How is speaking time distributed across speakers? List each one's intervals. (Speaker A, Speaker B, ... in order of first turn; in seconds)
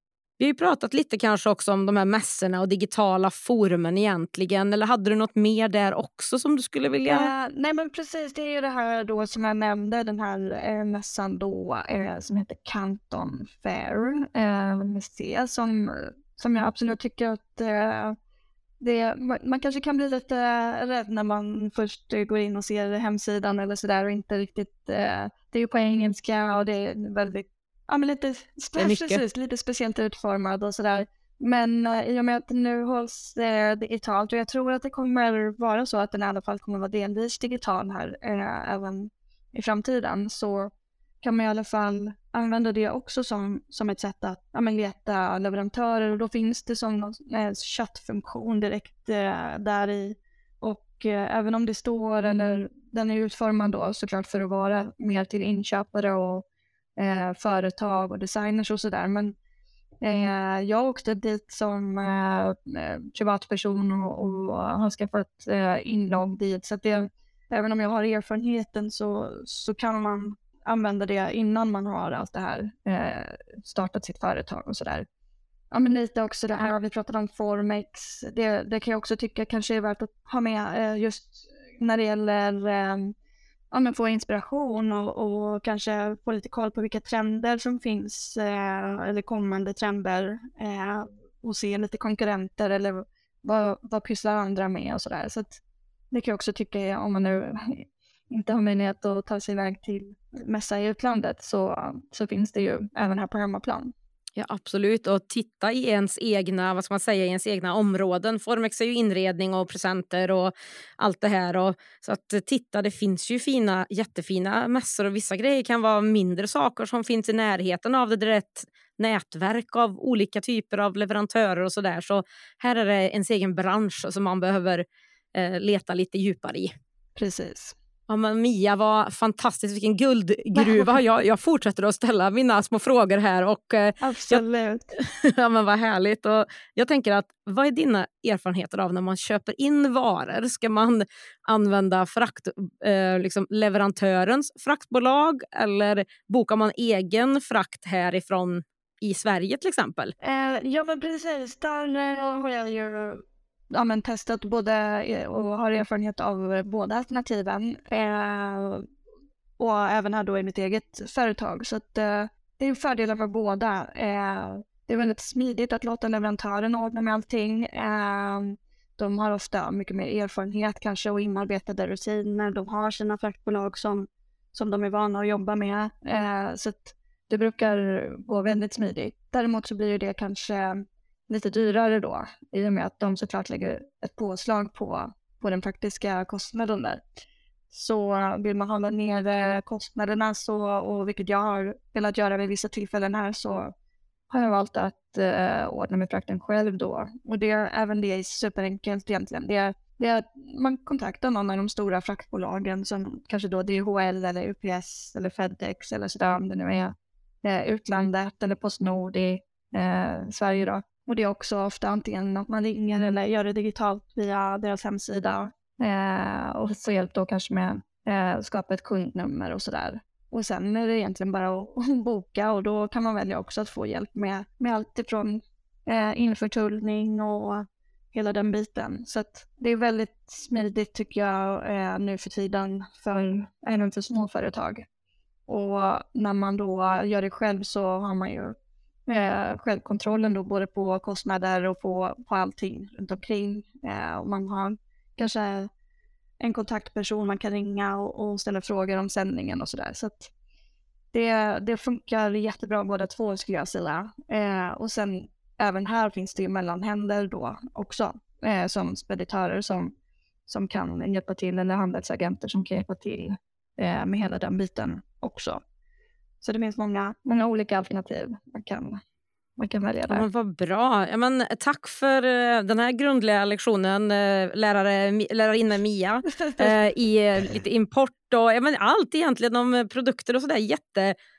Speaker A: 0.4-7.3, 28.8-29.2, 104.4-126.7, 128.1-134.4, 135.0-150.1, 270.1-281.1
Speaker B: 7.1-18.2, 18.8-56.5, 57.0-59.4, 60.0-75.1, 75.7-83.2, 83.7-103.9, 127.2-127.8, 130.6-131.0, 134.0-135.0, 150.2-158.9, 159.6-193.7, 194.3-234.8, 235.5-238.6, 239.1-245.7, 246.4-250.3, 251.1-259.9, 260.5-265.6, 266.4-269.0, 269.6-270.3, 276.3-277.6